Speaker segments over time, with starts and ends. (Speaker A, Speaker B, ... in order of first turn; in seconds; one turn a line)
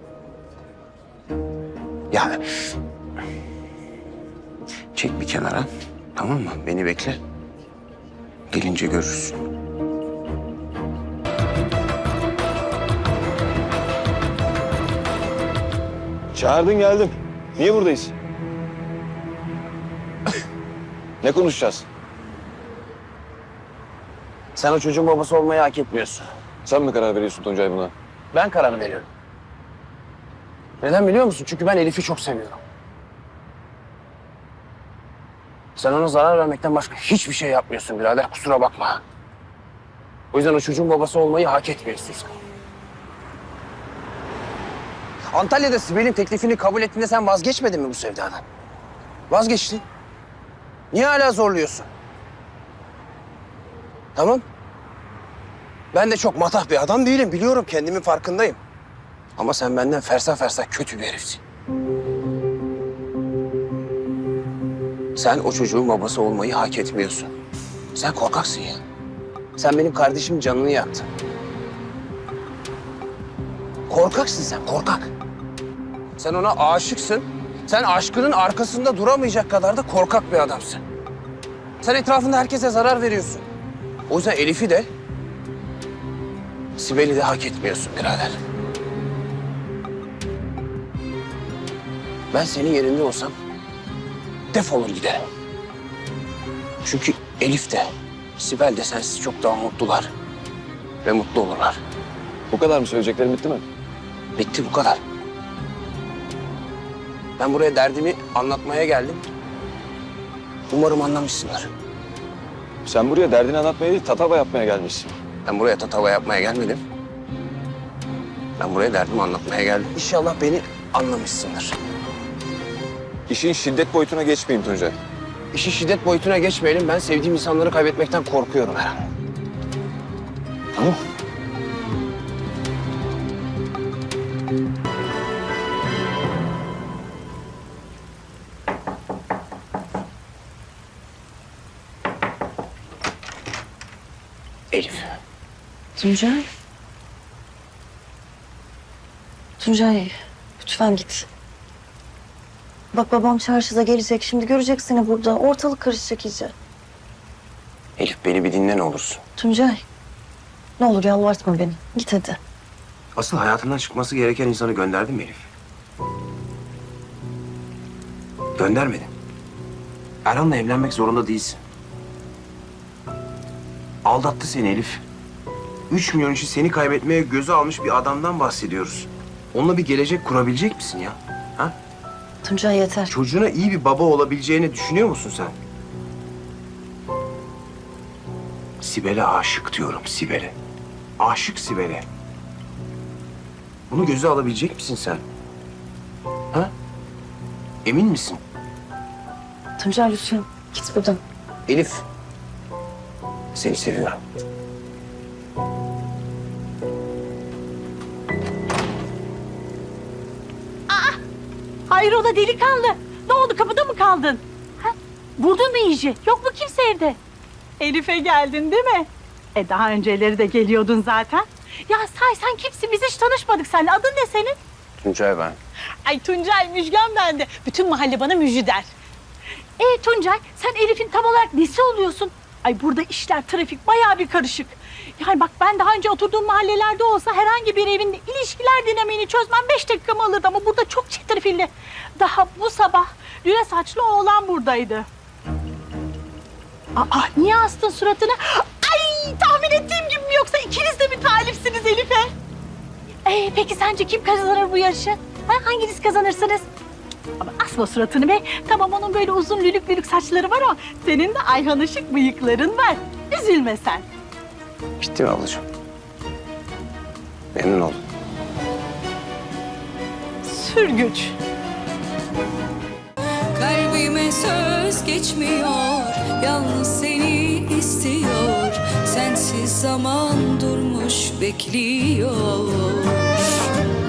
Speaker A: 2.1-2.4
Speaker A: 5.0-7.2
Speaker A: 8.5-9.4
Speaker B: 16.4-18.1
Speaker B: 21.2-21.9
Speaker A: 24.6-26.3
Speaker B: 26.6-27.9
Speaker A: 28.3-29.1
Speaker A: 30.8-32.6
Speaker A: 35.8-39.0
Speaker A: 40.3-42.4
Speaker A: 45.3-48.5
Speaker A: 49.3-49.8
Speaker A: 50.9-51.9
Speaker A: 54.2-54.4
Speaker A: 55.9-58.6
Speaker A: 59.4-61.4
Speaker A: 65.2-67.3
Speaker A: 68.0-68.8
Speaker A: 69.6-71.1
Speaker A: 73.9-75.1
Speaker A: 76.2-80.8
Speaker A: 81.8-83.5
Speaker A: 84.1-84.9
Speaker A: 86.8-88.3
Speaker A: 92.3-93.3
Speaker A: 94.5-95.2
Speaker A: 96.8-97.8
Speaker A: 98.4-100.1
Speaker A: 101.0-101.8
Speaker B: 102.5-103.7
Speaker A: 104.4-105.0
Speaker A: 107.4-109.2
Speaker A: 110.7-111.7
Speaker B: 112.9-115.1
Speaker A: 115.5-116.8
Speaker A: 118.6-121.8
Speaker B: 123.3-125.0
Speaker A: 125.5-129.1
Speaker A: 144.7-145.1
Speaker C: 146.0-146.4
Speaker C: 149.6-151.3
Speaker C: 152.9-156.5
Speaker A: 158.0-159.2
Speaker C: 159.4-159.8
Speaker C: 160.8-162.4
Speaker A: 163.2-165.4
Speaker A: 168.6-169.1
Speaker A: 170.2-171.6
Speaker A: 174.1-175.0
Speaker A: 175.9-181.7
Speaker C: 182.4-183.1
Speaker A: 183.1-185.6
Speaker A: 188.8-190.6
Speaker A: 191.2-192.1
Speaker A: 193.9-195.2
Speaker A: 197.8-198.4
Speaker C: 199.8-201.2
Speaker A: 201.7-202.1
Speaker A: 203.5-204.2
Speaker D: 210.9-211.2
Speaker D: 211.9-217.2
Speaker D: 217.8-224.6
Speaker A: 225.0-225.6
Speaker D: 226.1-228.9
Speaker D: 229.8-245.1
Speaker D: 246.9-252.3
Speaker D: 253.2-256.7
Speaker D: 257.4-264.1
Speaker A: 265.0-265.7
Speaker A: 267.6-268.0
Speaker D: 270.4-271.4
Speaker E: 273.6-283.3